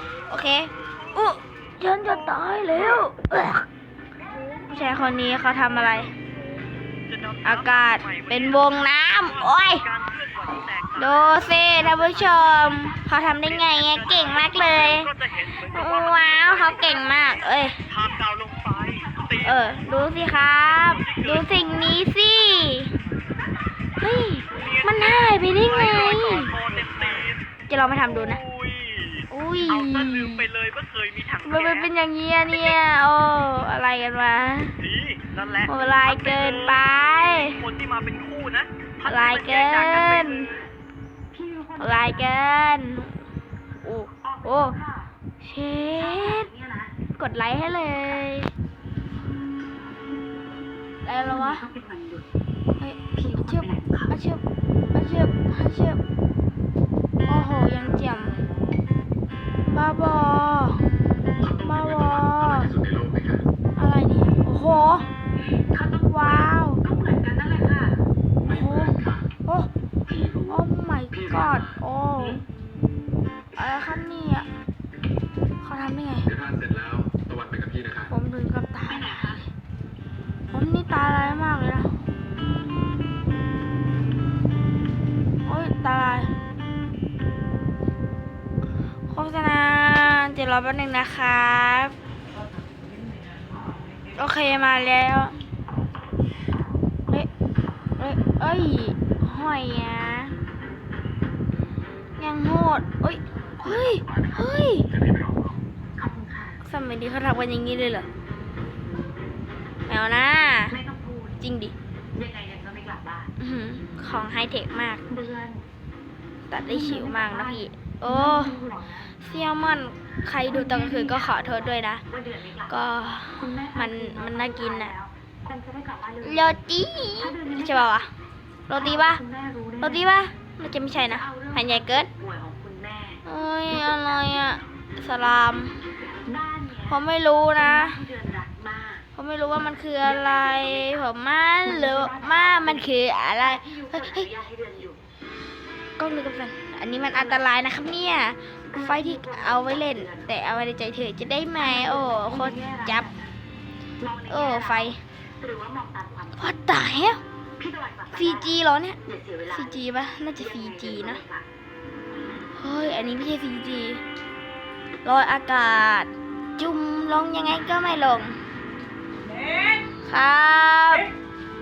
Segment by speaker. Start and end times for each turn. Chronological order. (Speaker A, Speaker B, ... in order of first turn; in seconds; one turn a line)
Speaker A: 0.1-3.7
Speaker A: 4.6-6.1
Speaker B: 7.1-12.8
Speaker A: 7.4-9.8
Speaker A: 10.9-17.8
Speaker B: 13.4-19.6
Speaker A: 19.4-22.9
Speaker B: 20.6-21.8
Speaker A: 24.0-26.5
Speaker B: 24.5-27.4
Speaker A: 27.7-28.4
Speaker B: 28.0-31.9
Speaker A: 29.3-30.5
Speaker A: 31.4-34.8
Speaker B: 34.8-40.6
Speaker A: 35.6-37.6
Speaker A: 39.0-40.5
Speaker C: 41.4-42.1
Speaker A: 41.8-43.2
Speaker A: 43.8-44.8
Speaker A: 45.4-46.5
Speaker C: 46.5-46.8
Speaker A: 47.1-48.5
Speaker A: 51.0-51.7
Speaker C: 51.7-52.2
Speaker A: 52.8-54.4
Speaker C: 53.7-54.0
Speaker A: 54.9-56.0
Speaker A: 57.2-58.4
Speaker A: 59.6-60.8
Speaker D: 61.4-63.4
Speaker A: 61.6-62.8
Speaker A: 63.8-65.1
Speaker A: 65.8-66.8
Speaker C: 66.9-68.0
Speaker A: 68.4-69.7
Speaker D: 68.5-69.2
Speaker D: 70.1-70.5
Speaker A: 70.5-72.4
Speaker D: 71.1-71.8
Speaker A: 73.5-74.5
Speaker A: 75.6-76.3
Speaker D: 76.3-78.1
Speaker A: 78.1-79.3
Speaker A: 80.5-81.9
Speaker A: 85.5-86.3
Speaker A: 89.1-91.9
Speaker A: 94.1-95.3
Speaker A: 98.0-100.3
Speaker A: 102.2-104.9
Speaker D: 103.7-105.6
Speaker C: 106.0-106.5
Speaker A: 106.6-108.1
Speaker A: 109.9-110.8
Speaker C: 110.8-111.2
Speaker A: 111.4-111.7
Speaker C: 112.1-113.2
Speaker A: 113.4-115.1
Speaker C: 115.3-115.6
Speaker A: 116.5-122.0
Speaker A: 122.7-124.9
Speaker C: 123.5-126.2
Speaker A: 126.2-128.1
Speaker A: 128.7-129.2
Speaker C: 129.0-129.7
Speaker A: 129.8-132.1
Speaker C: 132.2-133.2
Speaker A: 133.2-135.8
Speaker C: 136.3-136.6
Speaker A: 136.8-138.0
Speaker C: 138.1-139.0
Speaker A: 139.1-144.3
Speaker C: 141.9-142.3
Speaker C: 143.7-145.0
Speaker A: 146.0-153.1
Speaker C: 152.0-152.8
Speaker C: 154.0-154.7
Speaker A: 154.2-155.0
Speaker C: 155.4-156.1
Speaker A: 156.3-157.2
Speaker C: 157.6-158.1
Speaker A: 158.1-161.2
Speaker A: 162.6-164.0
Speaker A: 165.0-168.4
Speaker A: 170.0-171.1